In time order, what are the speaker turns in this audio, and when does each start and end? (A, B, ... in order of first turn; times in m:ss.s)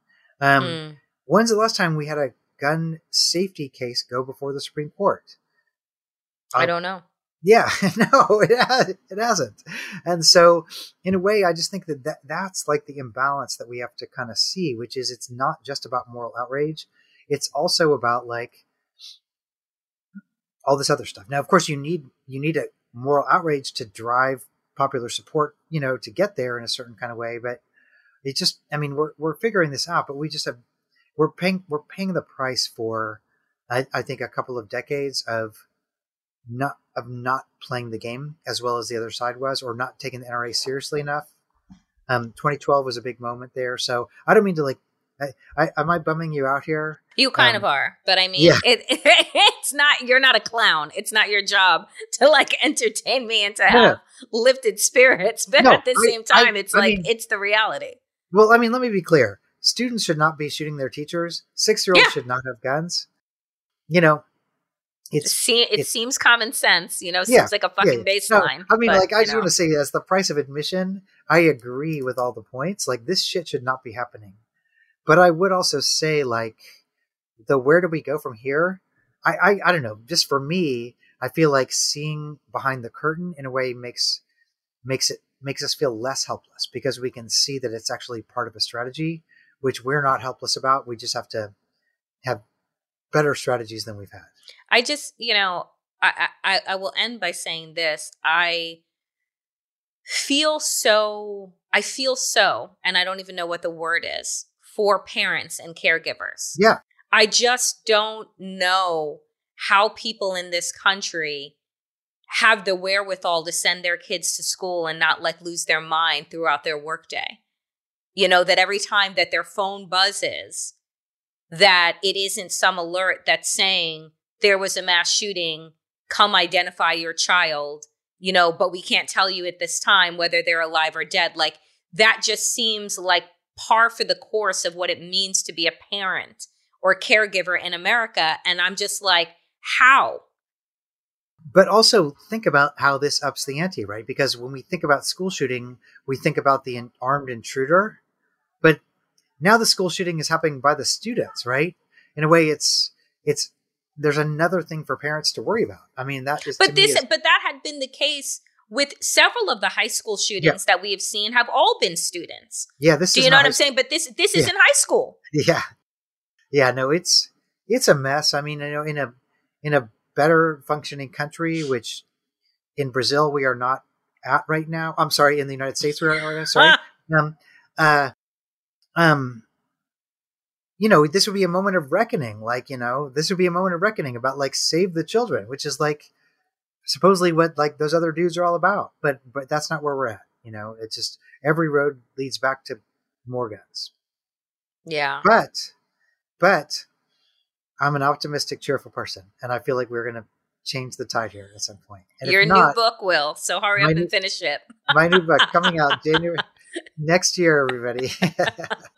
0:00.4-0:05.4 A
0:00.6-0:01.0 B
0:06.6-0:07.0 B
0:07.4-0:18.6 A
0:20.7-0:27.6 A
0:28.2-0:30.6 A
0:31.2-0:35.6 A
0:36.5-0:41.3 A
0:42.1-0:47.6 A
0:47.2-0:58.0 B
0:48.4-0:48.6 A
0:53.7-0:54.0 A
0:55.6-0:57.1 A
0:58.3-1:03.1 A
1:03.9-1:04.2 A
1:05.1-1:05.9 A
1:05.2-1:09.5 B
1:07.3-1:14.4 A
1:15.1-1:16.8 A
1:17.5-1:24.2 A
1:24.8-1:31.5 A
1:33.1-1:34.3 A
1:34.7-1:38.8 B
1:40.1-1:46.6 B
1:47.1-1:51.5 B
1:52.3-1:57.4 B
1:58.2-2:00.7 B
2:01.5-2:20.2 B
2:21.5-2:28.0 A
2:29.4-2:37.0 A
2:36.6-2:45.2 B
2:42.8-2:43.6 A
2:45.3-2:45.7 A
2:46.5-2:52.0 A
2:52.8-2:58.1 A
2:59.0-2:59.4 A
3:00.8-3:06.1 A
3:06.9-3:13.9 A
3:14.9-3:15.2 B
3:15.2-3:15.7 A
3:16.4-3:16.9 A
3:17.8-3:22.8 A
3:22.2-3:25.9 B
3:23.8-3:24.1 A
3:24.9-3:26.4 A
3:27.0-3:28.7 A